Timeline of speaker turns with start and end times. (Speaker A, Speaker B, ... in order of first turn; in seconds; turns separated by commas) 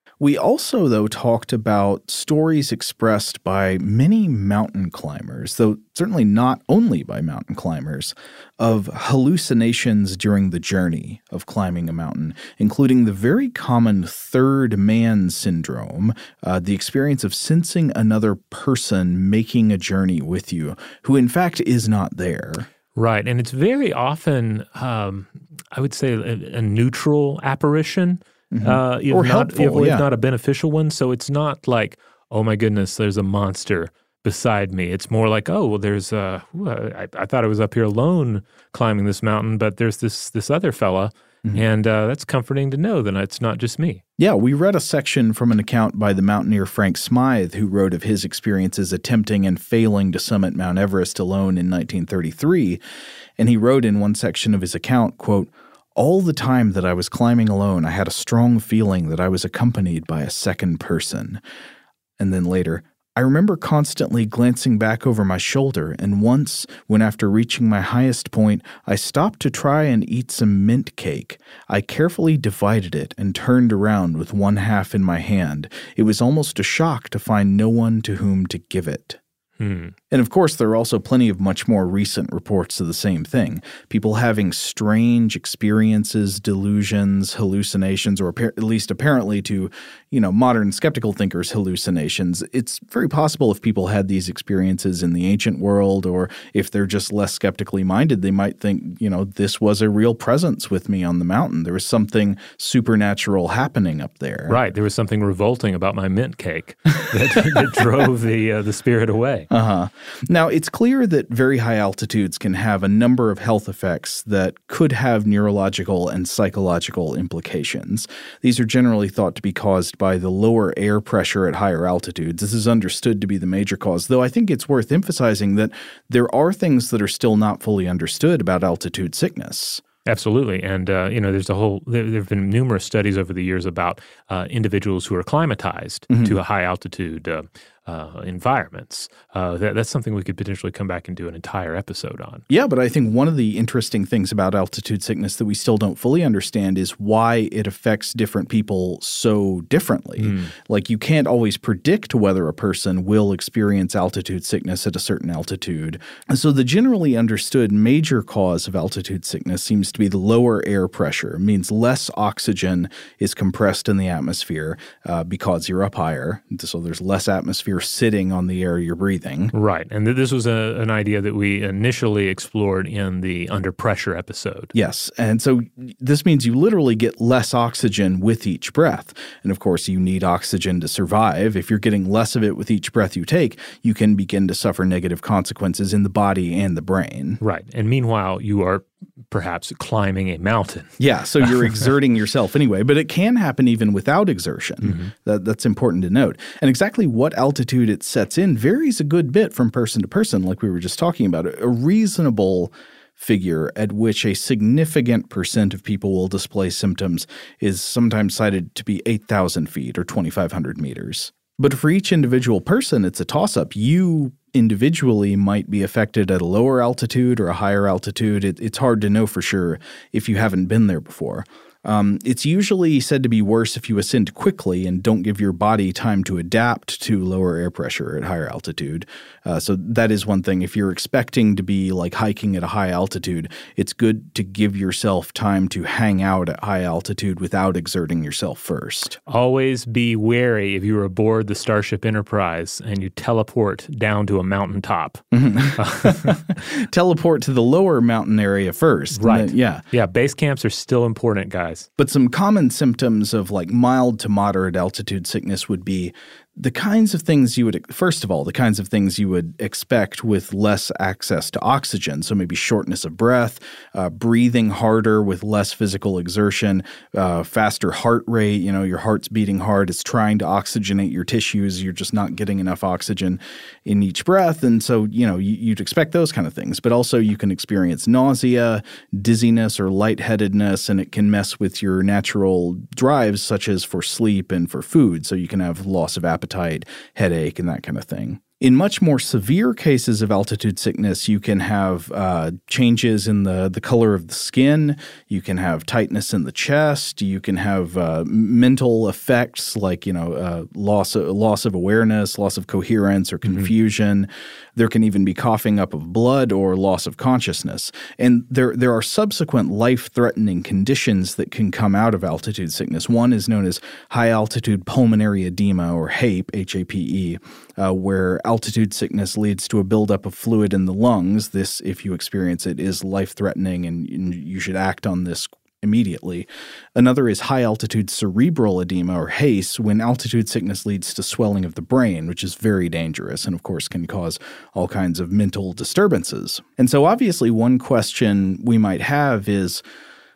Speaker A: 0.2-22.7, Speaker B: 22.9-44.0, Speaker A: 28.5-30.0, Speaker A: 44.2-52.8, Speaker A: 53.4-61.4, Speaker A: 62.2-79.2, Speaker B: 79.6-79.9, Speaker A: 80.1-104.6, Speaker B: 104.5-109.5, Speaker A: 109.5-129.8, Speaker B: 130.1-142.4, Speaker A: 136.1-136.4, Speaker A: 142.5-169.5, Speaker B: 150.2-150.5, Speaker B: 169.5-174.7, Speaker A: 174.7-187.4, Speaker B: 187.4-191.9, Speaker A: 191.0-239.2, Speaker B: 194.8-195.1, Speaker B: 239.3-246.4, Speaker A: 245.3-249.8, Speaker B: 249.1-251.9, Speaker A: 252.0-339.8, Speaker B: 303.4-303.7